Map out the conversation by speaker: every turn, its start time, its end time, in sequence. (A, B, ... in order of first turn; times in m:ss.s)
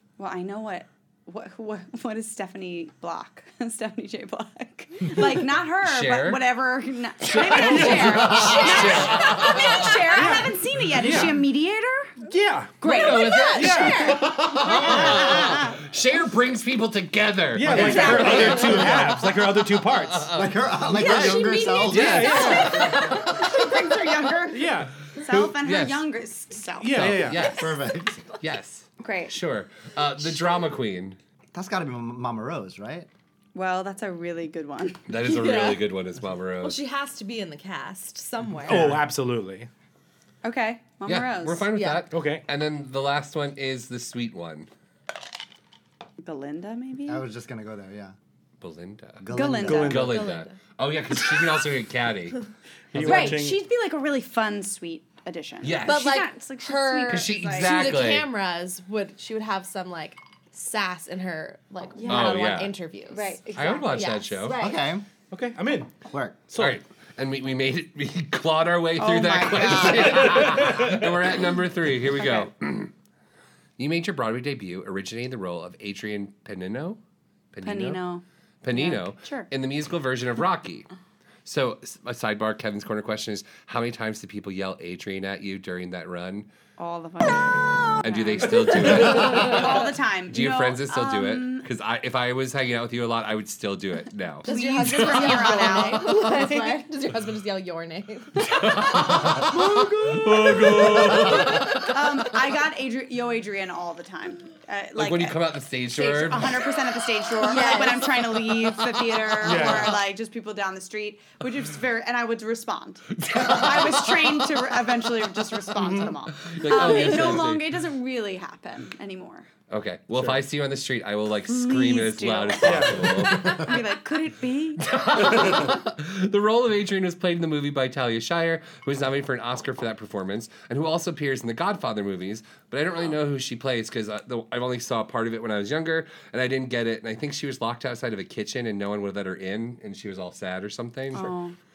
0:00.2-0:12.3 A
0:05.8-0:06.4 B
0:07.3-0:09.1 C
0:07.5-0:10.2 B
0:10.1-0:11.4 C
0:12.2-0:12.8 C
0:12.8-0:15.8 A
0:12.8-0:18.9 B
0:13.0-0:14.3 D
0:13.4-0:14.4 C
0:17.5-0:20.3 C
0:17.6-0:19.3 E
0:17.7-0:18.9 A
0:19.9-0:20.5 B
0:20.3-0:23.1 E
0:20.9-0:23.1 D
0:21.9-0:23.0 C
0:21.9-0:23.1 B
0:22.8-0:27.2 A
0:24.5-0:25.0 C
0:25.2-0:26.0 B
0:26.8-0:27.6 C
0:26.9-0:27.8 B
0:27.5-0:28.3 E
0:28.4-0:31.2 B
0:29.0-0:29.4 A
0:31.5-0:33.1 E
0:33.5-0:35.0 A
0:35.1-0:36.8 B
0:35.2-0:35.8 D
0:36.6-0:38.9 D
0:38.6-0:39.7 C
0:40.4-0:41.7 A
0:41.0-0:44.7 B
0:41.7-0:42.0 D
0:42.1-0:42.4 C
0:46.2-0:47.2 A
0:47.0-0:48.2 E
0:48.6-0:52.4 B
0:49.2-0:50.1 E
0:49.3-0:50.2 A
0:49.6-0:50.2 C
0:50.1-0:50.6 D
0:52.9-0:53.6 C
0:53.0-0:58.0 A
0:53.0-0:53.3 B
0:53.0-0:53.4 D
0:55.6-0:56.2 B
0:55.8-1:04.8 D
0:57.1-0:58.3 B
1:01.9-1:02.5 A
1:02.1-1:02.7 B
1:03.1-1:04.5 A
1:03.5-1:04.6 B
1:04.5-1:05.0 E
1:05.3-1:06.0 C
1:06.0-1:06.4 E
1:06.5-1:06.8 C
1:06.6-1:12.9 B
1:09.0-1:10.8 A
1:12.2-1:12.5 A
1:13.8-1:17.0 B
1:17.5-1:18.0 B
1:17.6-1:19.5 A
1:18.6-1:20.9 B
1:21.4-1:26.5 B
1:26.8-1:31.6 A
1:28.0-1:35.8 B
1:34.4-1:36.8 A
1:34.4-1:38.6 D
1:38.4-1:41.8 B
1:39.4-1:41.7 C
1:41.5-1:59.5 A
1:45.0-1:46.7 B
1:47.4-1:48.3 D
1:49.4-1:50.0 C
1:53.2-1:54.7 B
1:55.8-1:56.1 C
1:56.4-1:57.6 B
1:56.7-1:57.4 D
1:59.7-2:03.8 B
2:01.5-2:05.7 A
2:02.6-2:03.5 C
2:04.8-2:21.3 B
2:21.1-2:21.6 A